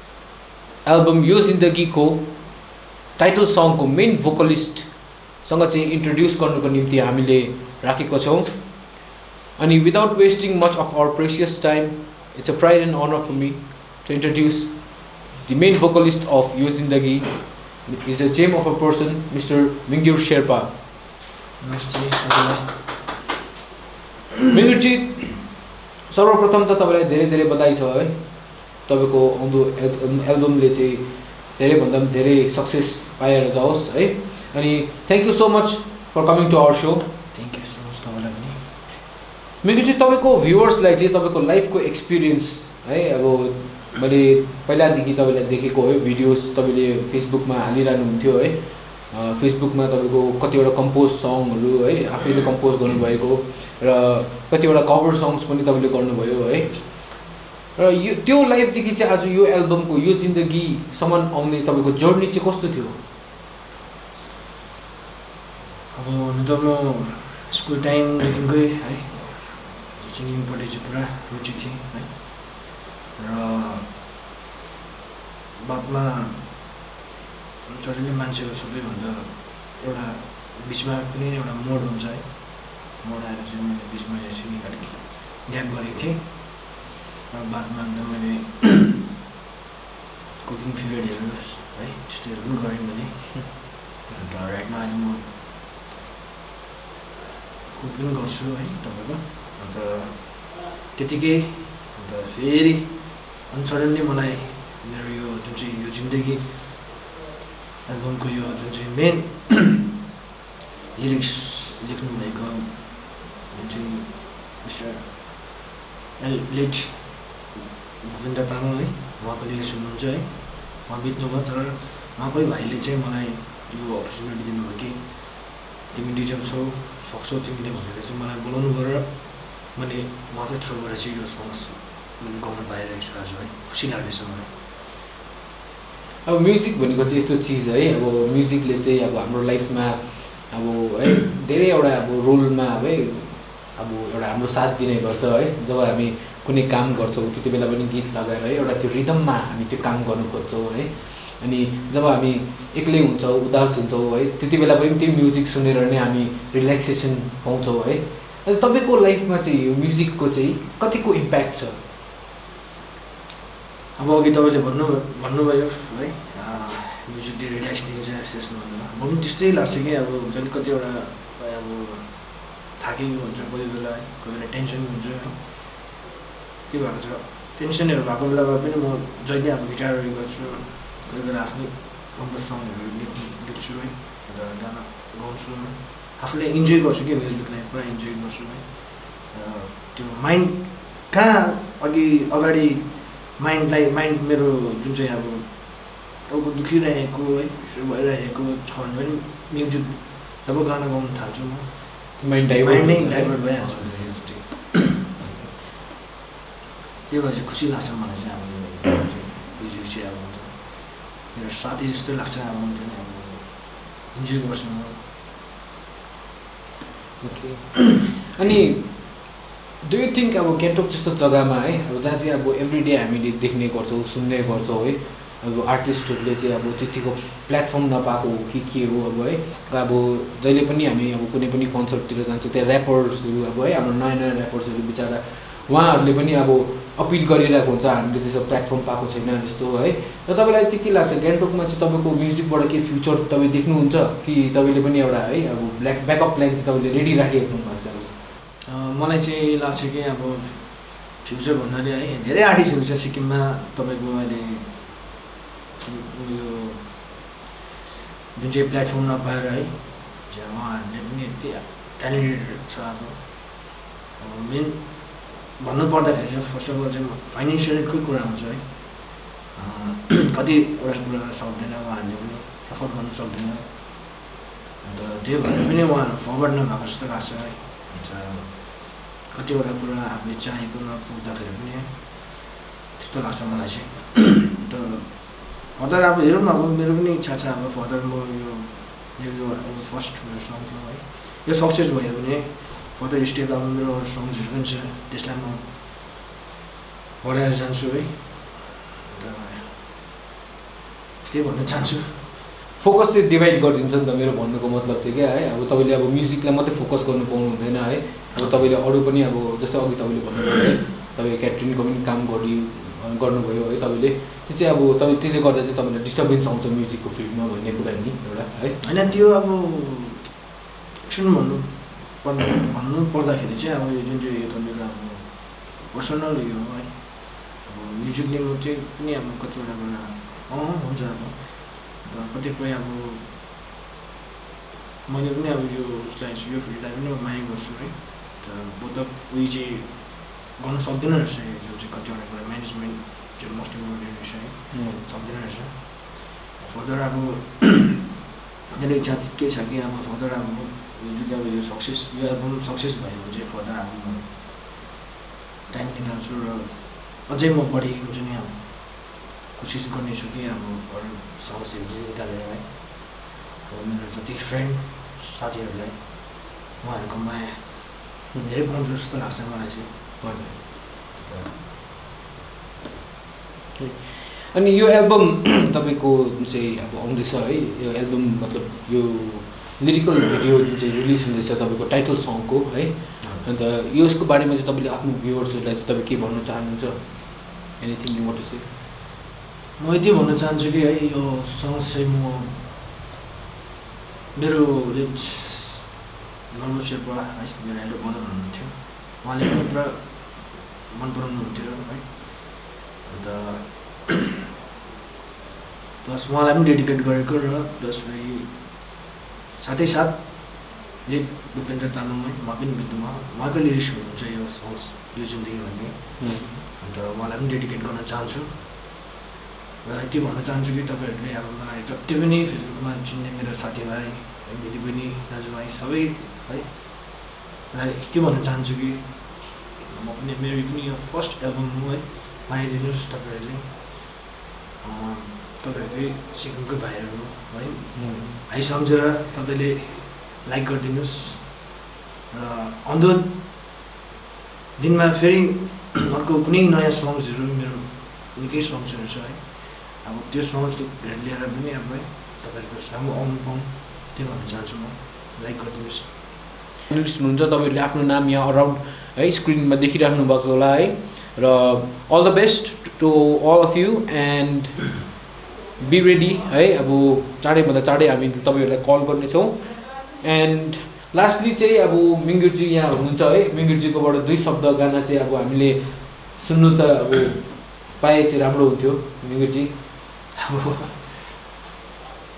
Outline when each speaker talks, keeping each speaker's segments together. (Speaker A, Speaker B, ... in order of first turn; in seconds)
Speaker A: 0.8-8.6, 9.6-20.7, 24.5-37.1, 39.6-63.0, 136.2-161.8, 202.2-205.5, 217.2-248.1, 302.8-318.8, 344.7-345.0, 370.2-370.6, 373.8-388.7, 416.2-416.6, 437.9-438.4, 456.9-465.1, 465.8-479.7
Speaker B: 21.6-22.8, 37.3-38.6, 65.9-73.9, 75.6-76.7, 77.7-89.0, 90.4-95.3, 97.7-106.7, 107.8-109.9, 110.9-115.6, 116.2-134.5, 163.9-175.9, 176.7-204.7, 207.1-215.0, 248.7-255.1, 255.8-257.1, 258.3-274.2, 274.8-295.7, 297.2-299.7, 301.3-302.2, 308.3-308.6, 318.8-320.4, 321.0-333.3, 335.1-348.0, 348.7-354.5, 355.7-370.0, 371.2-371.6, 383.2-383.5, 389.8-392.6, 394.3-395.9, 396.5-404.2, 406.0-409.0, 409.6-418.8, 419.8-434.0, 434.8-441.8, 442.3-443.7, 444.8-456.1, 480.4-481.1